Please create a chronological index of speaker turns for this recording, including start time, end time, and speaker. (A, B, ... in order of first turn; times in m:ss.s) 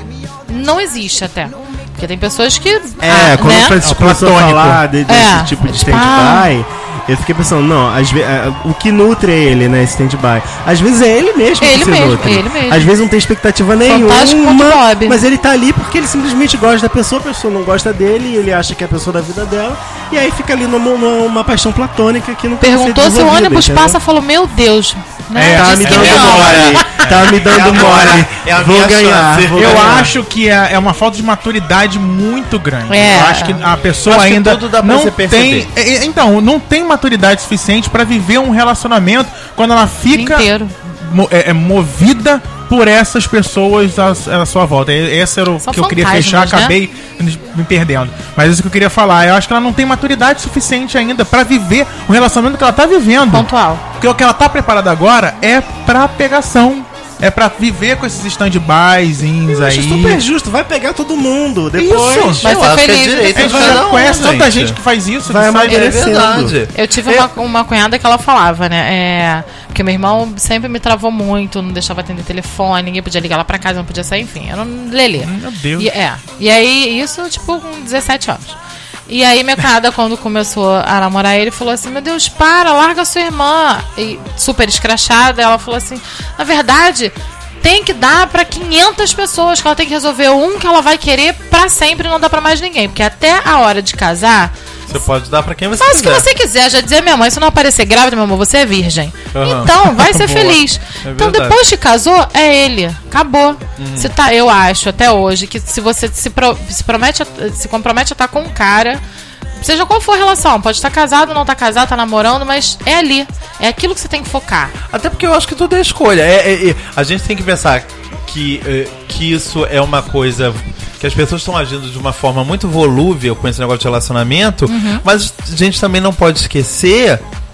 0:00.5-0:03.8 A
0:03.0-0:24.0 B
0:03.8-0:04.8 C
0:05.1-0:06.5 A
0:11.6-0:12.9 A
0:13.8-0:15.2 A
0:22.6-0:27.1 A
0:25.3-0:27.2 C
0:25.5-0:30.1 B
0:25.7-0:30.1 D
0:29.5-1:00.2 C
0:32.9-0:33.6 A
0:34.0-0:35.7 D
0:40.1-0:40.7 A
0:45.6-0:46.8 A
0:53.3-0:53.8 A
0:59.5-1:02.5 B
1:01.8-1:02.4 C
1:01.9-1:04.8 D
1:02.4-1:03.8 A
1:03.3-1:06.1 C
1:05.2-1:06.6 B
1:05.7-1:07.3 D
1:06.7-1:34.5 A
1:15.2-1:15.9 C
1:34.9-1:36.3 D
1:35.7-1:49.0 A
1:39.3-1:41.6 D
1:43.8-1:44.1 D
1:49.6-1:54.7 A
1:54.9-2:07.2 D
2:04.7-2:05.0 A